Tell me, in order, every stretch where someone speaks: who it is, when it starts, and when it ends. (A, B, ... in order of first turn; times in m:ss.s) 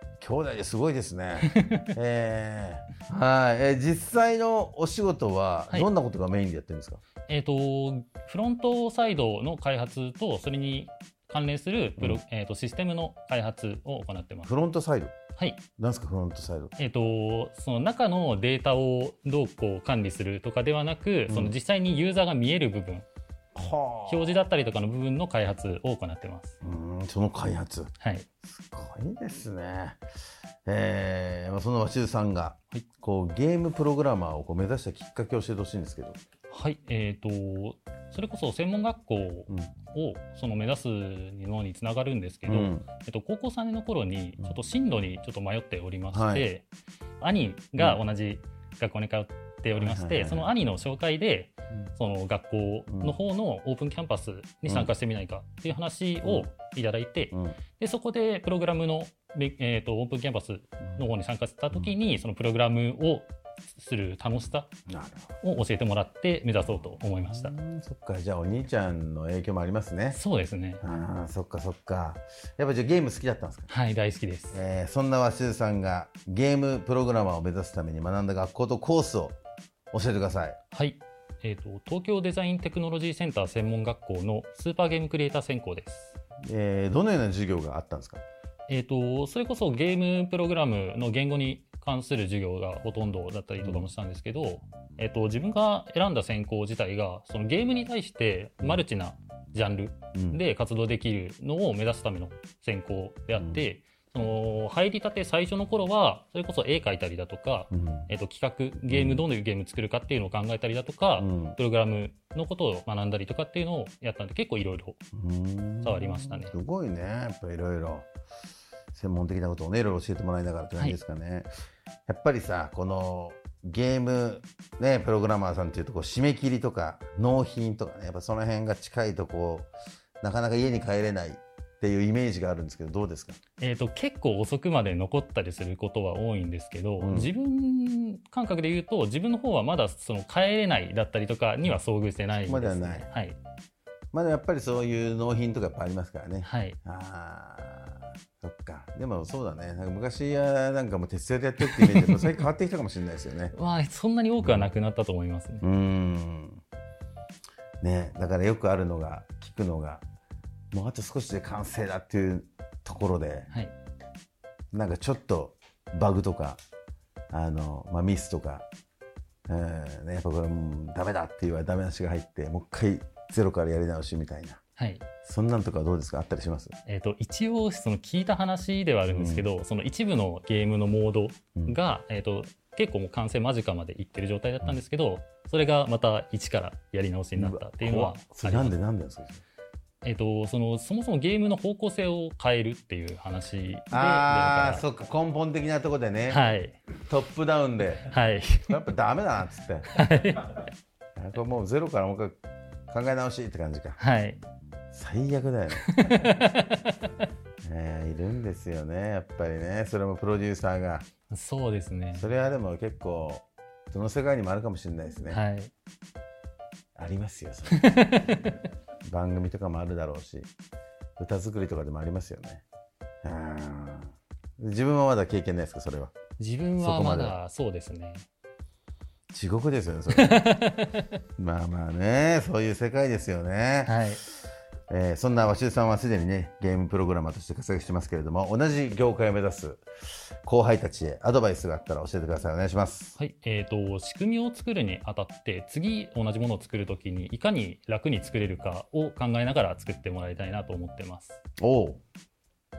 0:00.2-0:07.0 A
0:01.5-0:01.9 B
0:07.3-0:14.5 B
0:14.4-0:15.1 A
0:15.8-0:16.7 A
0:16.8-0:23.0 B
0:21.3-0:21.5 A
0:23.5-0:24.4 A
0:24.1-0:26.5 B
0:26.6-0:27.9 A
0:28.0-0:28.3 B
0:28.5-0:30.0 A
0:30.6-0:36.2 A
0:36.5-0:46.6 B
0:42.4-0:42.8 A
0:46.1-0:46.5 A
0:47.2-1:04.7 B
0:49.8-0:50.5 A
0:52.9-0:53.2 A
0:56.2-0:56.5 A
0:57.3-0:57.6 A
1:04.9-1:05.3 A
1:05.4-1:07.5 B
1:07.3-1:10.2 A
1:10.1-1:10.8 B
1:10.8-1:13.7 A
1:13.7-1:14.6 B
1:14.5-1:19.4 A
1:19.9-1:20.6 A
1:20.7-1:26.2 B
1:26.4-1:28.2 A
1:28.7-1:55.0 B
1:33.6-1:33.9 A
1:40.1-1:40.4 A
1:43.4-1:43.6 A
1:47.7-1:48.1 A
1:48.9-1:49.2 A
1:51.2-1:51.6 A
1:55.1-1:58.1 A
1:55.8-1:56.5 B
1:58.9-2:01.5 A
2:02.1-2:13.4 A
2:13.6-2:23.4 B
2:17.0-2:17.3 A
2:22.4-2:23.1 A
2:24.1-2:33.5 A
2:26.4-2:26.8 B
2:31.6-2:32.4 B
2:33.5-2:35.6 B
2:34.4-2:34.7 A
2:35.6-2:36.6 A
2:37.8-2:40.0 A
2:40.7-2:43.5 A
2:44.7-2:46.6 A
2:47.3-2:48.6 A
2:49.5-2:54.6 A
2:54.8-2:55.0 B
2:55.2-2:56.8 A
2:56.9-3:08.7 B
2:59.1-2:59.5 A
3:07.4-3:09.4 A
3:10.0-3:14.8 B
3:13.9-3:16.4 A
3:16.3-3:16.8 B
3:17.1-3:18.1 A
3:18.0-3:18.7 B
3:18.7-3:19.9 A
3:19.9-3:20.6 B
3:21.2-3:22.4 A
3:22.9-3:24.0 A
3:24.0-3:24.4 B
3:24.9-3:26.3 A
3:25.8-3:26.9 B
3:27.6-3:31.1 A
3:31.3-3:32.3 B
3:32.1-3:35.4 A
3:35.3-3:35.7 B
3:37.0-3:38.1 A
3:37.7-3:38.6 B
3:39.0-3:40.5 A
3:41.2-3:42.6 A
3:43.2-3:46.1 A
3:46.4-3:48.3 B
3:46.8-3:47.4 A
3:49.3-3:50.4 A
3:50.1-3:51.0 B
3:51.4-3:54.0 A
3:53.8-3:54.2 B
3:54.9-3:59.8 A
4:00.4-4:03.2 A
4:03.2-4:11.4 B
4:11.6-4:12.0 A